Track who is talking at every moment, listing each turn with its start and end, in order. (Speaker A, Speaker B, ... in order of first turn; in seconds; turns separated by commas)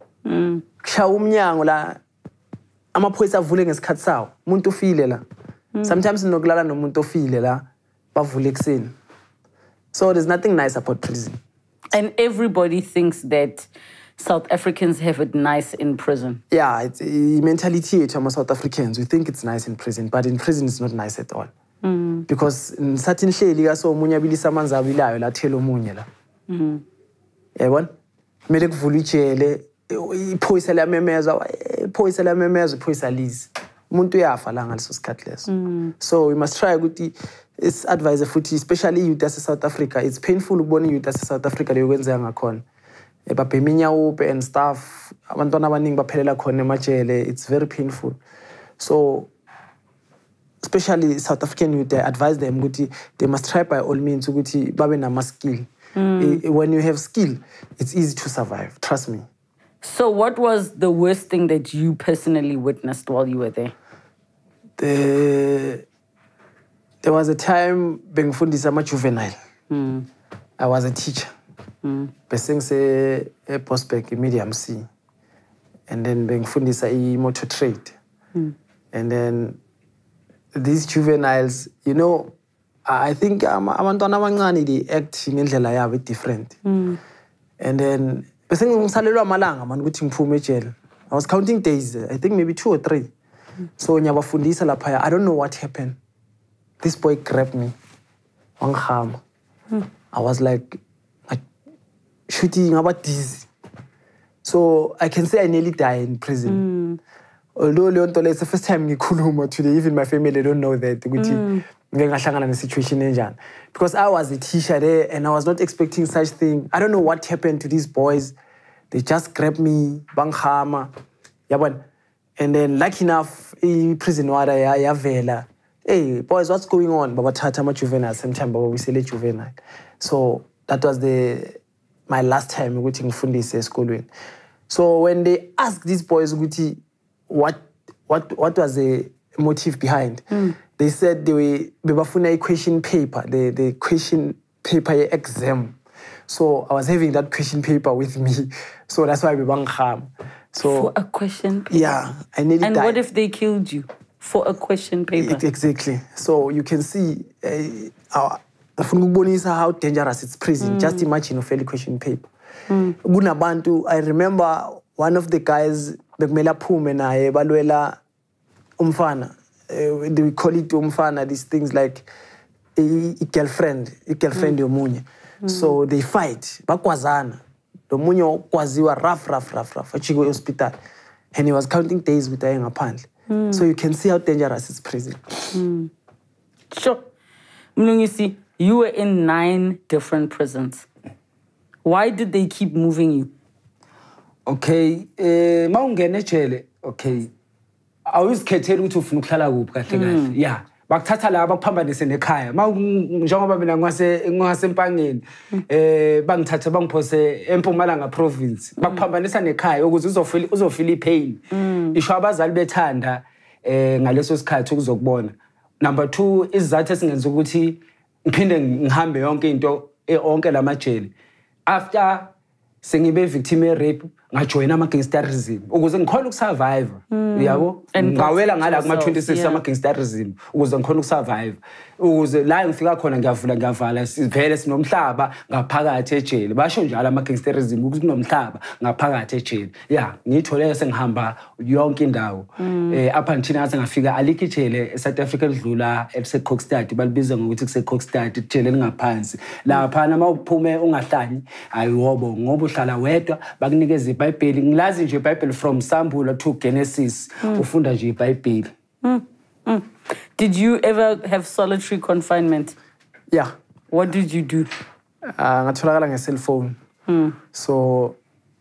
Speaker A: 0.2-0.6, Speaker B: 0.8-2.0, Speaker B: 2.9-5.2, Speaker B: 5.8-8.9, Speaker B: 9.9-11.4, Speaker A: 11.9-16.4, Speaker B: 16.5-21.5, Speaker A: 21.8-22.3, Speaker B: 22.3-26.1, Speaker A: 26.5-26.8, Speaker B: 27.6-27.9, Speaker B: 28.5-35.5, Speaker A: 35.5-35.9, Speaker B: 36.0-42.6, Speaker B: 43.3-48.2, Speaker B: 48.8-49.3, Speaker B: 50.6-59.2, Speaker A: 56.0-56.4, Speaker A: 59.8-63.7, Speaker B: 64.8-65.8, Speaker B: 67.0-69.4, Speaker A: 69.7-70.1, Speaker B: 70.6-71.3, Speaker A: 71.8-72.1, Speaker B: 72.3-74.9, Speaker B: 75.9-78.0, Speaker B: 78.9-79.6, Speaker B: 80.5-82.3, Speaker B: 82.9-86.6, Speaker A: 86.7-87.0, Speaker B: 87.6-93.1, Speaker B: 93.8-96.0, Speaker B: 96.8-97.8, Speaker B: 98.6-99.2, Speaker B: 100.1-101.4, Speaker B: 102.3-103.5, Speaker B: 104.4-106.7, Speaker A: 106.5-107.0, Speaker B: 107.6-118.3, Speaker A: 111.2-111.7, Speaker B: 118.9-120.9, Speaker B: 121.5-121.8, Speaker B: 122.4-134.1, Speaker B: 134.7-145.8, Speaker A: 140.3-140.6, Speaker B: 146.3-150.9, Speaker A: 150.6-152.0, Speaker B: 151.7-153.0, Speaker A: 152.6-155.4, Speaker B: 155.2-162.3, Speaker A: 160.6-161.1, Speaker A: 162.7-163.0, Speaker B: 163.0-168.0, Speaker B: 168.8-172.1, Speaker B: 172.8-180.8, Speaker A: 175.4-175.7, Speaker B: 181.3-185.6, Speaker A: 183.3-183.7, Speaker A: 185.5-185.9, Speaker A: 186.7-187.0, Speaker A: 187.8-190.9, Speaker A: 191.8-193.3, Speaker C: 194.5-197.3, Speaker C: 198.1-211.4, Speaker A: 199.9-200.3, Speaker A: 211.5-212.0, Speaker C: 211.9-221.1, Speaker C: 221.7-222.3, Speaker C: 222.8-258.7, Speaker A: 227.1-229.6, Speaker A: 242.6-243.0, Speaker A: 259.0-262.8, Speaker A: 263.9-264.7, Speaker B: 265.4-266.8, Speaker A: 267.1-267.4, Speaker B: 267.5-268.2